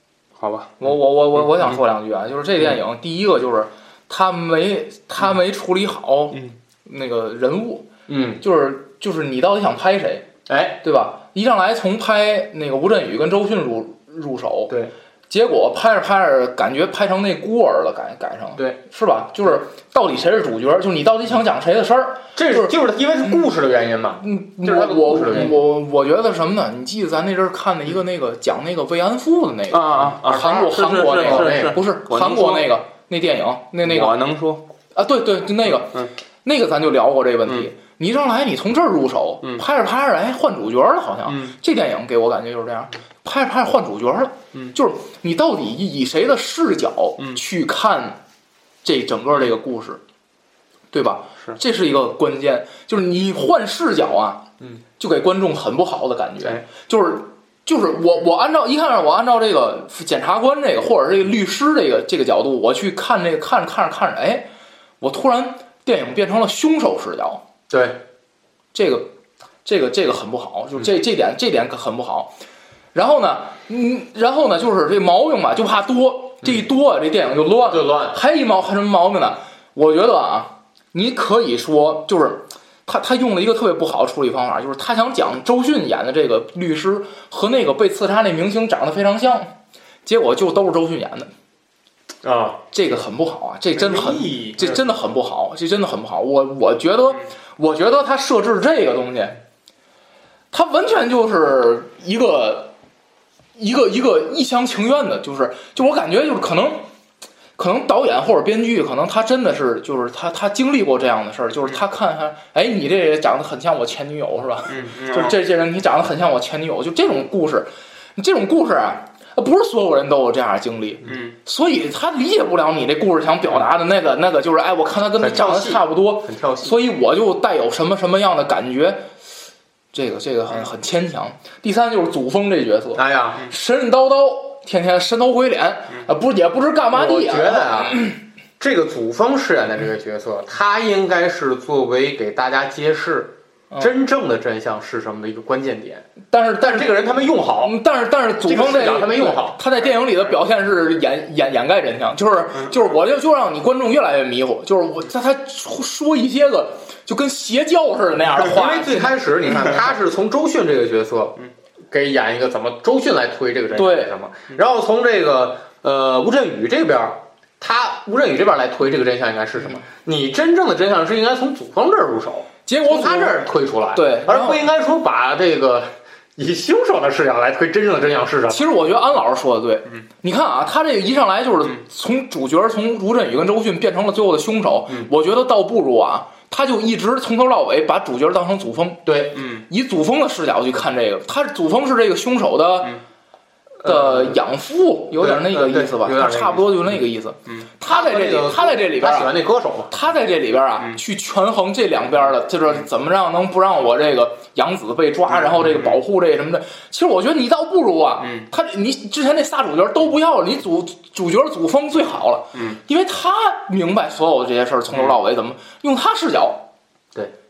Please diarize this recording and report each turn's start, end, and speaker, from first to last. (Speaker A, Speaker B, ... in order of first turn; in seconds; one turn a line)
Speaker A: 0.4-1.8
Speaker B: 0.8-7.9
Speaker C: 8.1-8.4
Speaker B: 8.4-10.3
Speaker C: 10.5-10.8
Speaker B: 10.8-14.7
Speaker B: 15.3-22.7
Speaker C: 22.3-25.6
Speaker B: 24.2-34.2
Speaker A: 29.7-32.7
Speaker C: 30.0-31.8
Speaker A: 33.8-34.6
Speaker B: 34.9-48.2
Speaker A: 35.8-36.1
Speaker A: 41.2-41.6
Speaker B: 48.8-50.0
Speaker B: 50.9-54.5
Speaker B: 55.0-64.5
Speaker B: 65.0-67.4
Speaker C: 67.7-68.0
Speaker B: 68.7-69.1
Speaker B: 69.6-72.3
Speaker B: 72.9-91.3
Speaker C: 77.7-78.2
Speaker C: 92.2-92.6
Speaker B: 92.7-99.4
Speaker A: 93.8-94.5
Speaker C: 93.8-94.8
Speaker B: 100.5-102.7
Speaker B: 103.5-106.9
Speaker B: 107.6-129.1
Speaker A: 114.7-115.4
Speaker A: 121.0-121.3
Speaker C: 125.2-126.8
Speaker B: 129.9-138.2
Speaker C: 132.9-133.5
Speaker C: 136.9-147.8
Speaker B: 146.3-147.0
Speaker B: 147.6-159.2
Speaker C: 148.4-149.8
Speaker C: 158.4-161.4
Speaker C: 161.9-178.7
Speaker B: 163.7-164.1
Speaker B: 172.7-174.6
Speaker B: 178.5-193.0
Speaker C: 189.1-189.4
Speaker A: 189.3-189.7
Speaker C: 193.8-194.3
Speaker B: 193.8-199.4
Speaker C: 195.1-196.9
Speaker C: 197.8-199.9
Speaker B: 199.9-216.7
Speaker A: 205.3-206.0
Speaker A: 208.2-208.5
Speaker A: 212.5-212.8
Speaker A: 214.9-215.2